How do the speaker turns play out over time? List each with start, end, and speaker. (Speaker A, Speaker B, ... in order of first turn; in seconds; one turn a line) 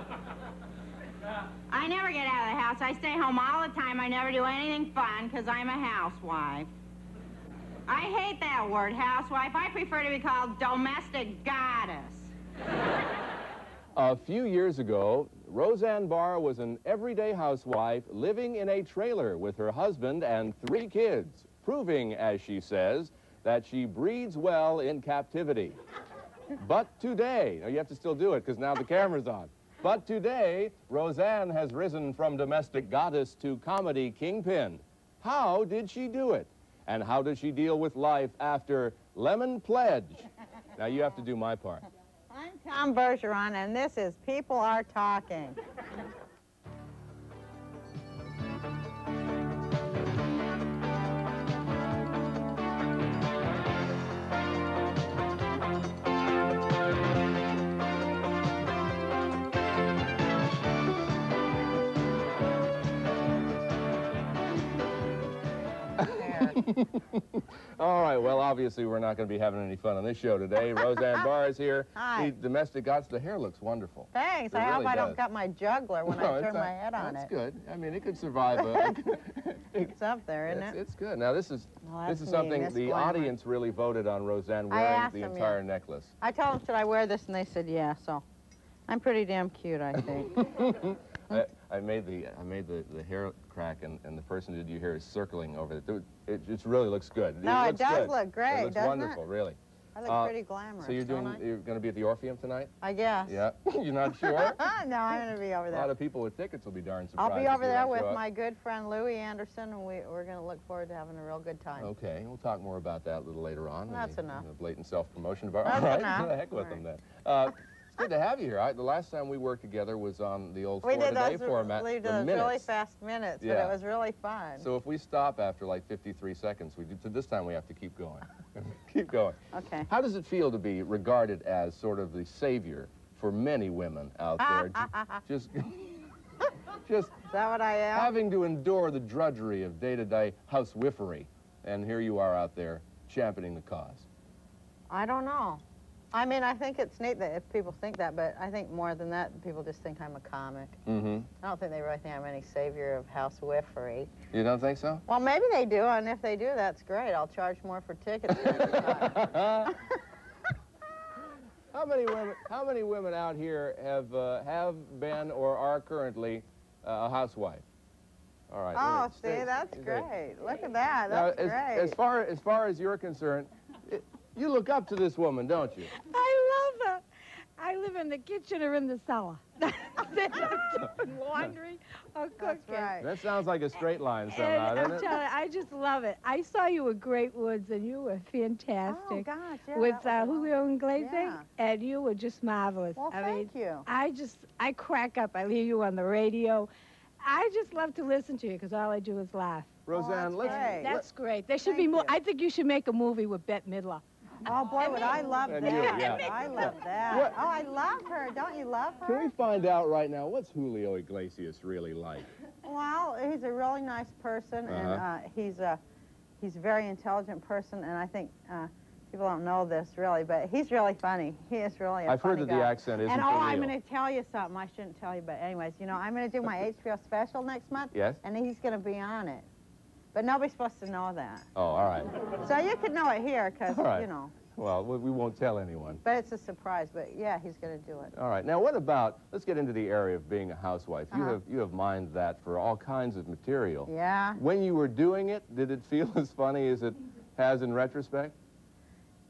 Speaker A: 1.7-6.7
Speaker A: 7.9-12.3
Speaker B: 14.0-25.8
Speaker B: 26.6-41.9
Speaker A: 42.3-45.6
Speaker B: 66.0-75.2
Speaker A: 66.1-66.6
Speaker A: 72.0-72.3
Speaker A: 74.1-77.3
Speaker B: 76.1-80.0
Speaker A: 79.9-80.8
Speaker B: 80.5-86.1
Speaker A: 81.8-83.3
Speaker A: 84.7-85.6
Speaker A: 86.2-88.2
Speaker A: 88.9-90.5
Speaker B: 90.4-102.7
Speaker A: 97.4-99.2
Speaker A: 100.0-101.4
Speaker A: 102.8-103.4
Speaker B: 103.3-104.6
Speaker A: 104.2-105.9
Speaker B: 105.7-108.2
Speaker A: 107.2-111.9
Speaker B: 111.8-122.7
Speaker A: 113.9-114.5
Speaker A: 115.6-116.8
Speaker A: 120.8-124.7
Speaker B: 123.4-123.8
Speaker B: 124.6-129.4
Speaker A: 129.5-129.9
Speaker B: 129.9-136.0
Speaker A: 134.4-135.2
Speaker B: 136.8-137.2
Speaker A: 137.3-138.1
Speaker B: 137.9-144.1
Speaker A: 144.9-150.8
Speaker B: 150.9-151.3
Speaker A: 151.4-154.1
Speaker B: 154.3-155.0
Speaker A: 155.1-159.9
Speaker B: 158.3-159.8
Speaker B: 161.7-167.6
Speaker B: 168.5-170.1
Speaker A: 168.8-172.0
Speaker B: 171.1-175.9
Speaker C: 175.9-177.0
Speaker C: 177.6-183.0
Speaker A: 182.4-183.1
Speaker B: 183.0-185.2
Speaker C: 184.3-196.7
Speaker A: 188.9-191.5
Speaker A: 193.0-193.9
Speaker C: 197.2-199.7
Speaker B: 199.9-201.1
Speaker A: 199.9-201.0
Speaker C: 200.4-204.0
Speaker A: 201.6-202.2
Speaker A: 204.4-209.3
Speaker B: 205.5-206.3
Speaker C: 205.7-206.7
Speaker B: 207.1-207.4
Speaker B: 209.1-212.3
Speaker A: 212.7-215.8
Speaker B: 214.7-215.0
Speaker A: 216.4-229.5
Speaker B: 222.1-223.7
Speaker B: 227.9-228.2
Speaker A: 230.1-231.5
Speaker B: 231.6-232.2
Speaker A: 232.3-234.3
Speaker B: 233.7-236.0
Speaker A: 236.0-238.1
Speaker B: 238.2-248.3
Speaker A: 241.1-241.4
Speaker A: 243.9-244.4